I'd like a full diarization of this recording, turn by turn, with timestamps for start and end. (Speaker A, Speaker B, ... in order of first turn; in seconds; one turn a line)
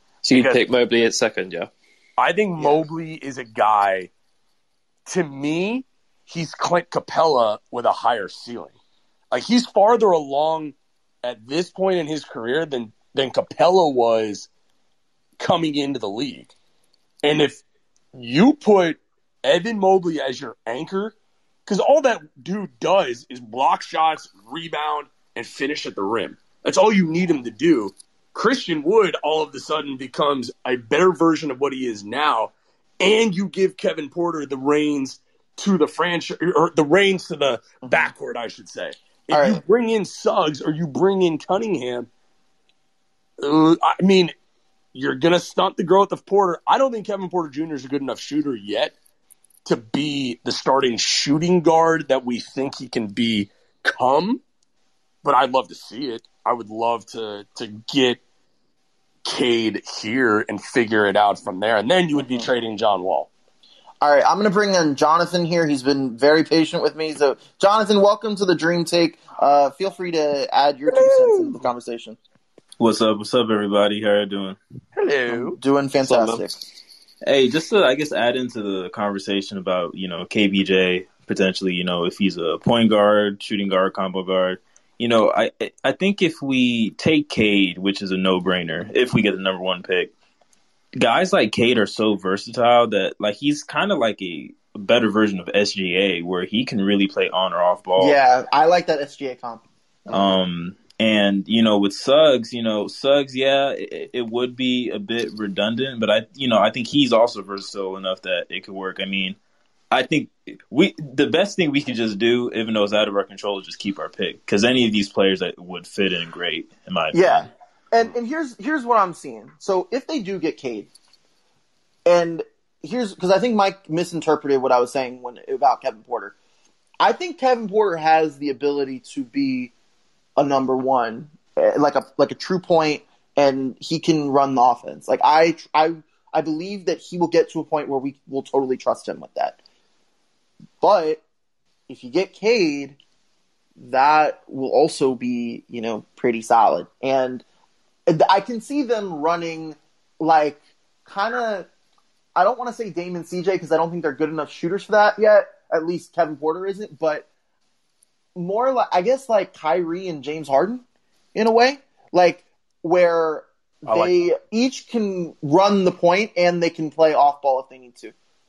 Speaker A: 0.2-1.7
Speaker B: 0.3-0.6
Speaker B: 2.2-4.1
Speaker B: 5.1-8.8
Speaker B: 9.3-14.5
Speaker B: 15.4-16.5
Speaker B: 17.2-17.6
Speaker B: 18.1-21.1
Speaker B: 21.7-42.1
Speaker C: 37.8-38.1
Speaker C: 39.3-39.6
Speaker B: 43.4-44.3
Speaker B: 44.9-49.0
Speaker B: 49.6-54.4
Speaker B: 55.2-58.2
Speaker B: 59.2-63.3
Speaker C: 64.0-72.2
Speaker B: 70.9-71.6
Speaker D: 72.8-74.6
Speaker B: 75.0-75.6
Speaker C: 75.3-76.6
Speaker A: 76.0-76.4
Speaker D: 77.2-90.1
Speaker D: 91.0-98.2
Speaker C: 98.0-100.4
Speaker D: 100.1-109.4
Speaker D: 109.9-117.5
Speaker C: 117.1-120.9
Speaker C: 122.1-126.3
Speaker C: 127.0-129.7
Speaker C: 130.4-139.6
Speaker C: 140.8-141.2
Speaker C: 141.9-143.0
Speaker C: 143.8-147.4
Speaker C: 148.1-151.7
Speaker C: 152.4-157.3
Speaker C: 158.4-160.8
Speaker C: 161.3-168.1
Speaker B: 163.9-164.1